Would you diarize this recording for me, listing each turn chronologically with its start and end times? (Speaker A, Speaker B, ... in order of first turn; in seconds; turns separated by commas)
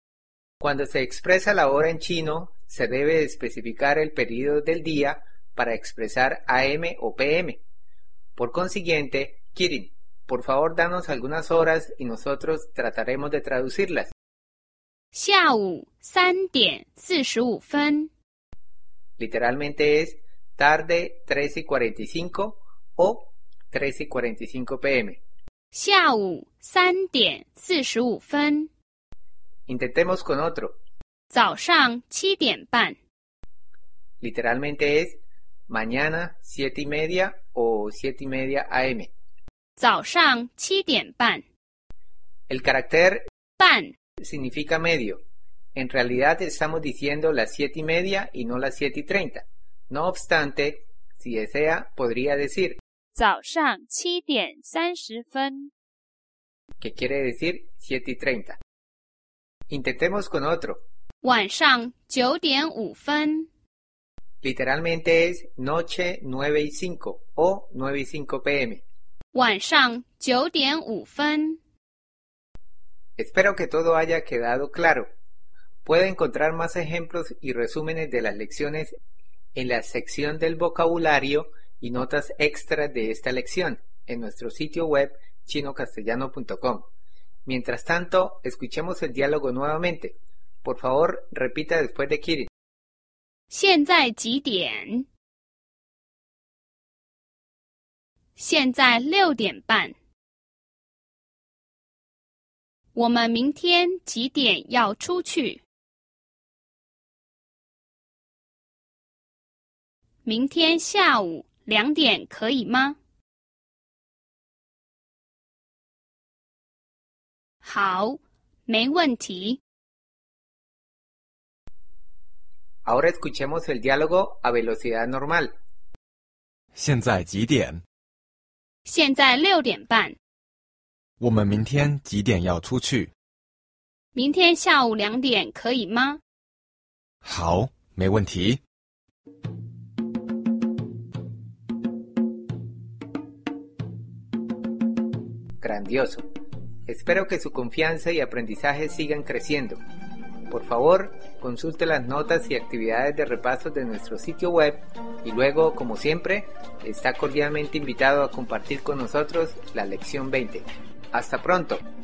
Speaker A: 0.6-7.6, Speaker A: 8.3-14.1, Speaker B: 15.1-18.1, Speaker A: 19.2-25.2, Speaker B: 25.7-28.7, Speaker A: 29.7-30.8, Speaker B: 31.3-33.0, Speaker A: 34.2-39.1, Speaker B: 39.8-41.4, Speaker A: 42.5-43.3, Speaker B: 43.6-43.9, Speaker A: 44.2-45.2, Speaker A: 45.7-52.8, Speaker B: 53.1-55.7, Speaker A: 56.8-58.6, Speaker A: 59.7-60.8, Speaker B: 61.2-63.5, Speaker A: 64.4-68.8, Speaker B: 69.3-71.6, Speaker A: 73.2-75.0, Speaker A: 75.8-79.0, Speaker A: 79.5-86.9, Speaker A: 87.5-92.5, Speaker B: 93.5-95.1, Speaker B: 98.3-99.9, Speaker B: 102.9-105.6, Speaker B: 110.2-113.0, Speaker B: 117.6-119.6, Speaker A: 122.8-125.5, Speaker C: 126.7-127.8, Speaker B: 128.8-130.2, Speaker C: 131.2-133.1, Speaker B: 134.1-136.2, Speaker C: 137.2-138.6, Speaker A: 145.6-146.2, Speaker A: 146.9-149.8, Speaker A: 150.5-161.8